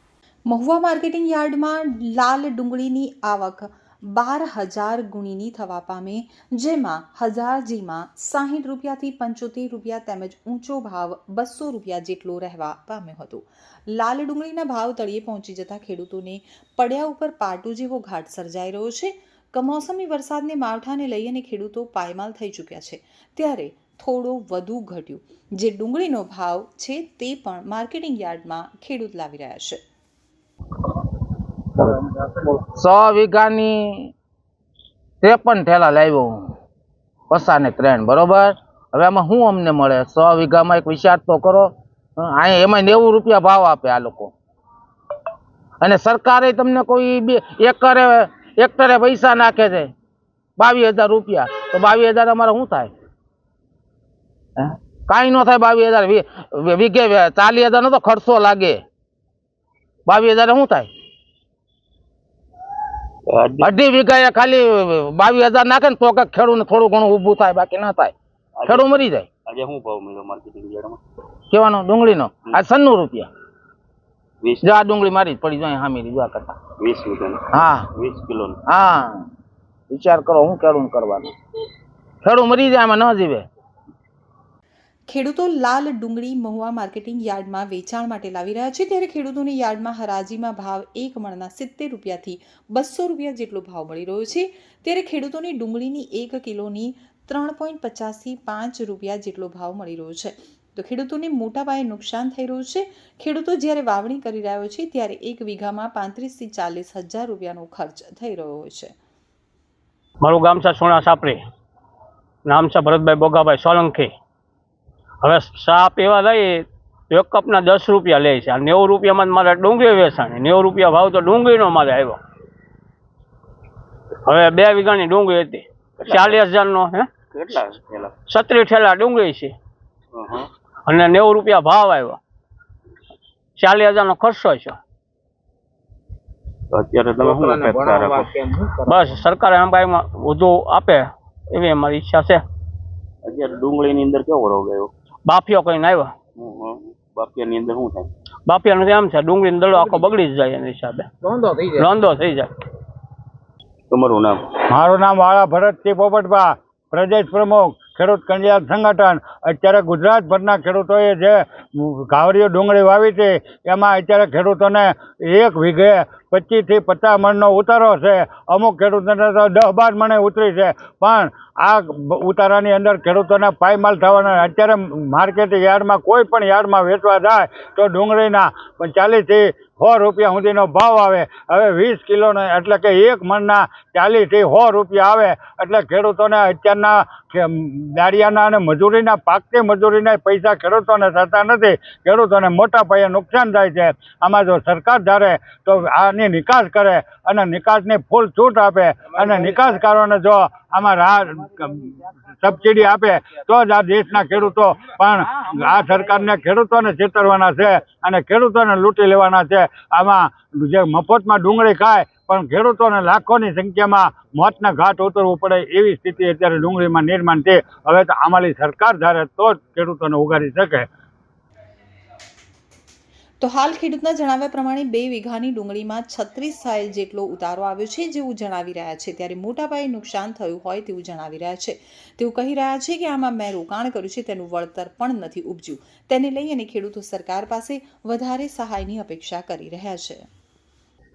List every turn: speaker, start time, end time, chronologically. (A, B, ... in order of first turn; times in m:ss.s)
0:00.5-0:29.8 A
0:31.8-0:34.1 B
0:35.2-0:36.5 B
0:37.3-0:44.3 B
0:45.8-0:49.9 B
0:50.6-0:52.9 B
0:54.6-0:58.8 B
1:00.1-1:00.9 B
1:03.3-1:03.7 C
1:03.6-1:08.1 B
1:08.6-1:08.9 C
1:08.6-1:09.3 B
1:09.4-1:11.0 C
1:11.5-1:13.3 B
1:14.4-1:14.7 C
1:14.6-1:16.6 B
1:16.8-1:18.6 C
1:17.5-1:17.9 B
1:18.7-1:19.3 B
1:19.9-1:21.3 B
1:22.2-1:23.4 B
1:25.1-1:48.9 A
1:50.2-1:51.4 D
1:52.4-1:54.1 D
1:55.2-2:02.2 D
2:04.2-2:07.1 D
2:06.0-2:06.4 C
2:07.3-2:08.1 C
2:08.3-2:09.5 D
2:10.1-2:10.5 C
2:10.9-2:12.2 D
2:13.6-2:14.8 D
2:16.7-2:18.3 C
2:17.2-2:19.1 B
2:18.9-2:22.4 D
2:23.2-2:24.9 C
2:25.2-2:26.1 D
2:26.4-2:28.1 C
2:28.4-2:31.1 D
2:29.7-2:30.1 B
2:31.2-2:31.8 B
2:31.8-2:32.5 D
2:33.9-2:34.4 C
2:34.7-3:40.9 E
3:43.4-4:00.2 A